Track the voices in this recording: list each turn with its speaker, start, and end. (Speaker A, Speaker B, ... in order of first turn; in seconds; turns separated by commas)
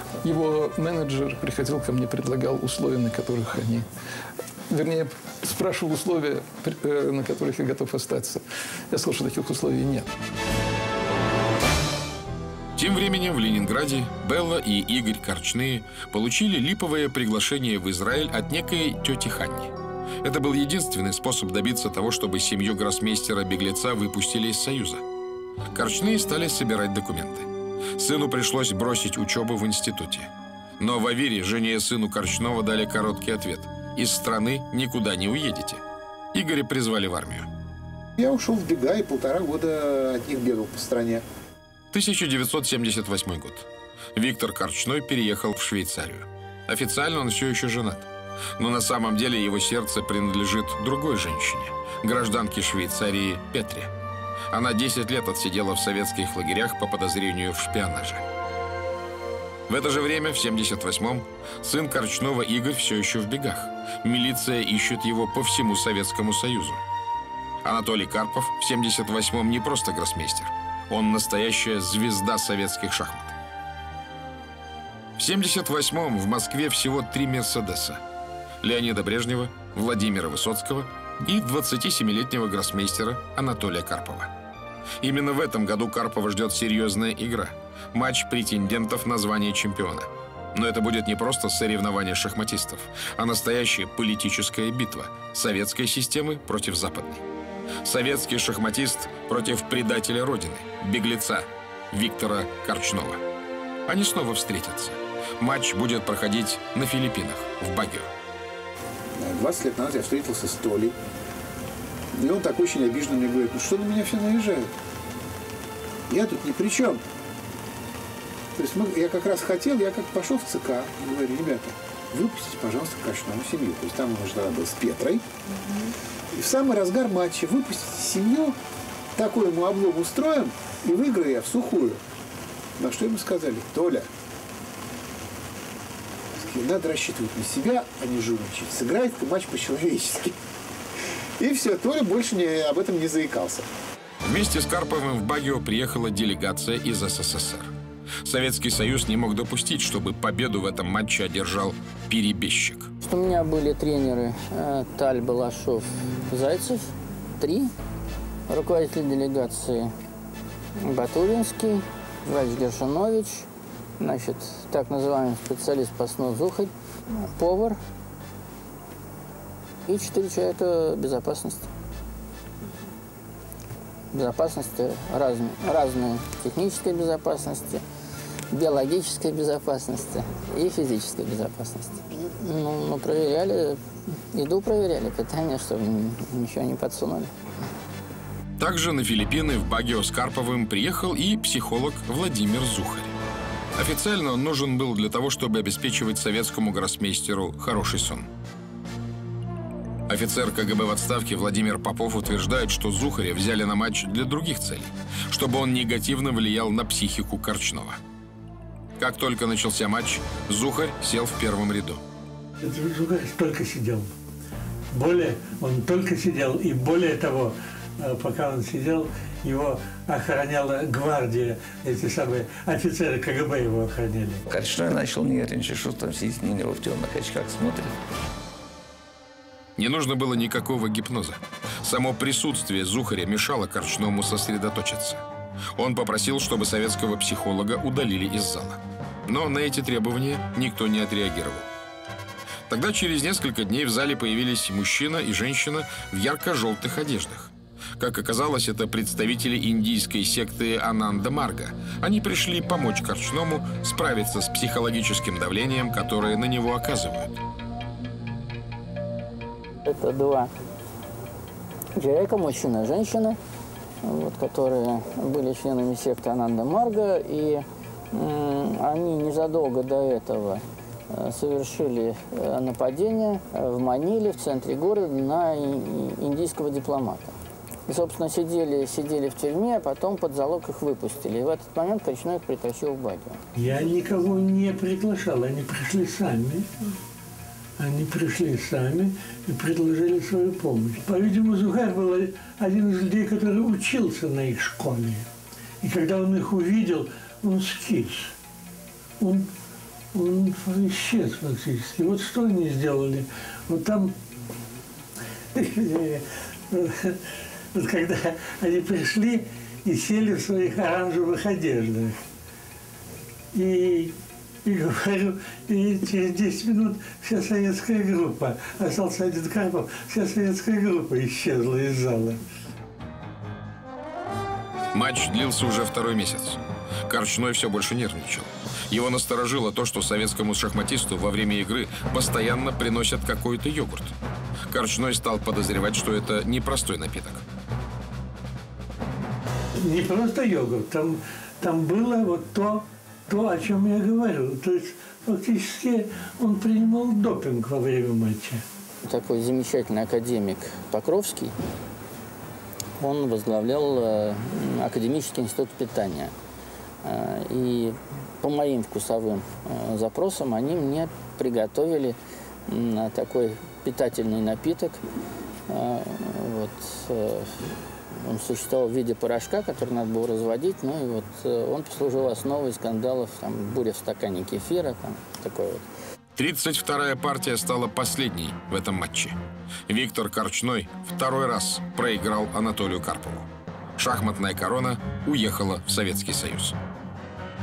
Speaker A: 0.2-3.9, Speaker A: 4.7-10.1, Speaker B: 12.8-25.0, Speaker B: 25.7-37.5, Speaker C: 38.2-41.2, Speaker B: 41.9-53.9, Speaker B: 54.5-58.2, Speaker B: 59.7-66.8, Speaker B: 67.6-73.3, Speaker B: 75.2-78.0, Speaker B: 78.6-84.3, Speaker B: 85.0-97.2, Speaker B: 97.8-103.2, Speaker B: 103.8-108.1, Speaker C: 109.1-110.9, Speaker C: 112.1-114.7, Speaker C: 116.1-117.0, Speaker C: 118.5-125.2, Speaker C: 126.3-128.5, Speaker C: 129.2-132.0, Speaker C: 132.8-134.1, Speaker C: 136.4-140.3, Speaker C: 141.4-143.7, Speaker B: 144.2-152.9, Speaker D: 153.0-157.7, Speaker D: 158.5-159.9, Speaker D: 160.8-163.5, Speaker D: 164.0-167.8, Speaker D: 169.8-171.7, Speaker D: 174.1-177.8, Speaker D: 178.5-183.8, Speaker D: 184.3-187.3, Speaker B: 188.6-193.2, Speaker B: 193.8-198.3, Speaker B: 200.1-208.0, Speaker B: 209.0-212.0, Speaker E: 212.6-214.1, Speaker E: 214.9-224.4, Speaker F: 224.5-228.0, Speaker B: 229.8-235.2, Speaker B: 235.8-241.7, Speaker B: 242.7-257.4, Speaker D: 259.8-260.5, Speaker D: 261.9-263.4, Speaker D: 264.0-277.3, Speaker D: 277.9-283.4, Speaker E: 283.6-286.7, Speaker E: 287.8-295.3, Speaker E: 295.8-298.3, Speaker E: 299.2-299.5, Speaker E: 300.1-304.1, Speaker E: 305.5-307.2, Speaker E: 307.7-312.2, Speaker E: 313.5-322.4, Speaker B: 324.9-334.1, Speaker B: 334.7-337.4, Speaker E: 339.8-348.6, Speaker D: 349.0-351.5, Speaker D: 353.0-356.3, Speaker D: 357.0-365.0, Speaker D: 365.7-367.6, Speaker D: 368.1-375.9, Speaker B: 376.3-386.8